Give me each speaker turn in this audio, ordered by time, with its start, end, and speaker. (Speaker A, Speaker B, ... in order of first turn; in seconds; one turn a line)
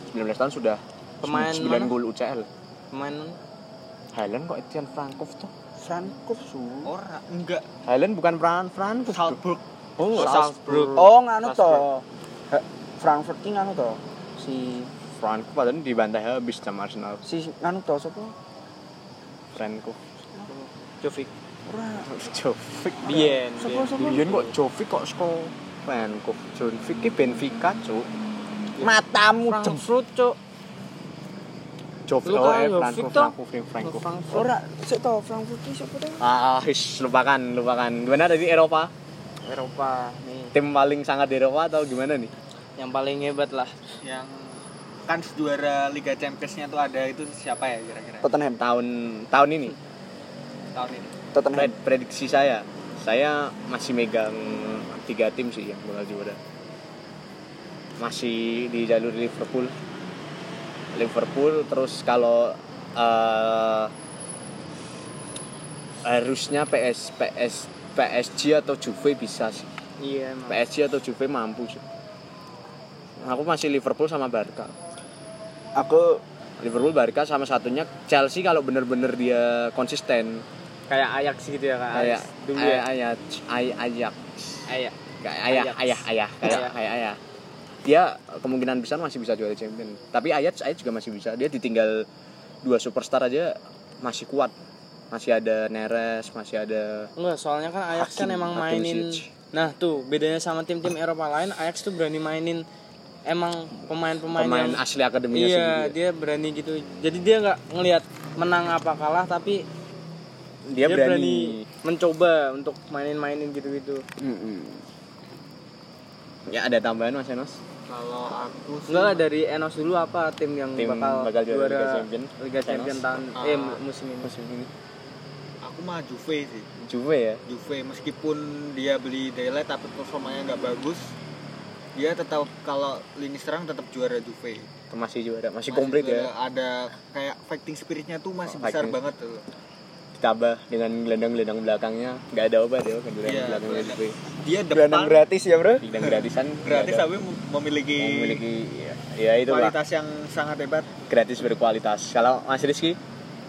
Speaker A: 0.1-2.5
Speaker B: 1.2-1.9
Speaker B: 2.9-3.4
Speaker A: 4.1-5.5
Speaker C: 5.8-6.9
Speaker D: 6.8-7.7
Speaker A: 7.8-9.4
Speaker D: 9.1-10.9
Speaker A: 10.0-10.3
Speaker B: 10.1-11.8
Speaker C: 10.9-14.9
Speaker A: 15.1-17.2
Speaker C: 17.2-18.4
Speaker A: 19.5-20.0
Speaker B: 20.5-21.3
Speaker C: 21.7-22.1
Speaker A: 22.0-23.4
Speaker B: 23.1-24.5
Speaker C: 23.1-24.2
Speaker A: 23.9-28.1
Speaker C: 28.8-29.9
Speaker B: 29.5-30.4
Speaker A: 32.1-34.1
Speaker B: 32.2-34.5
Speaker C: 34.3-36.3
Speaker A: 36.2-38.9
Speaker B: 39.5-40.5
Speaker A: 40.5-42.3
Speaker B: 42.8-43.7
Speaker D: 44.0-44.5
Speaker D: 45.1-48.3
Speaker C: 48.2-48.6
Speaker A: 48.6-49.8
Speaker D: 50.8-51.1
Speaker C: 51.3-51.7
Speaker A: 51.5-56.4
Speaker A: 58.0-59.7
Speaker A: 60.9-63.9
Speaker A: 66.0-69.7
Speaker B: 70.0-70.6
Speaker A: 70.5-71.8
Speaker A: 73.2-74.8
Speaker C: 75.8-76.2
Speaker A: 76.6-80.5
Speaker B: 80.9-82.9
Speaker A: 81.9-84.7
Speaker B: 84.7-85.0
Speaker A: 85.2-87.2
Speaker B: 85.5-86.7
Speaker A: 87.8-92.0
Speaker A: 92.6-94.5
Speaker A: 95.1-97.1
Speaker B: 97.2-102.6
Speaker A: 97.9-99.3
Speaker B: 103.3-109.7
Speaker A: 104.3-106.0
Speaker A: 110.7-111.7
Speaker B: 110.8-114.0
Speaker C: 114.2-114.8
Speaker A: 116.5-117.6
Speaker D: 117.9-119.2
Speaker B: 118.9-124.3
Speaker A: 120.8-123.3
Speaker D: 123.4-123.8
Speaker A: 124.2-124.7
Speaker D: 125.6-126.7
Speaker A: 126.8-127.4
Speaker D: 127.5-131.2
Speaker D: 131.9-134.7
Speaker A: 134.9-136.3
Speaker D: 135.7-139.4
Speaker A: 138.5-139.0
Speaker A: 140.2-144.2
Speaker D: 143.2-145.3
Speaker C: 144.7-145.9
Speaker A: 145.8-147.1
Speaker D: 146.0-148.4
Speaker A: 148.0-149.8
Speaker D: 149.5-150.9
Speaker A: 151.1-153.0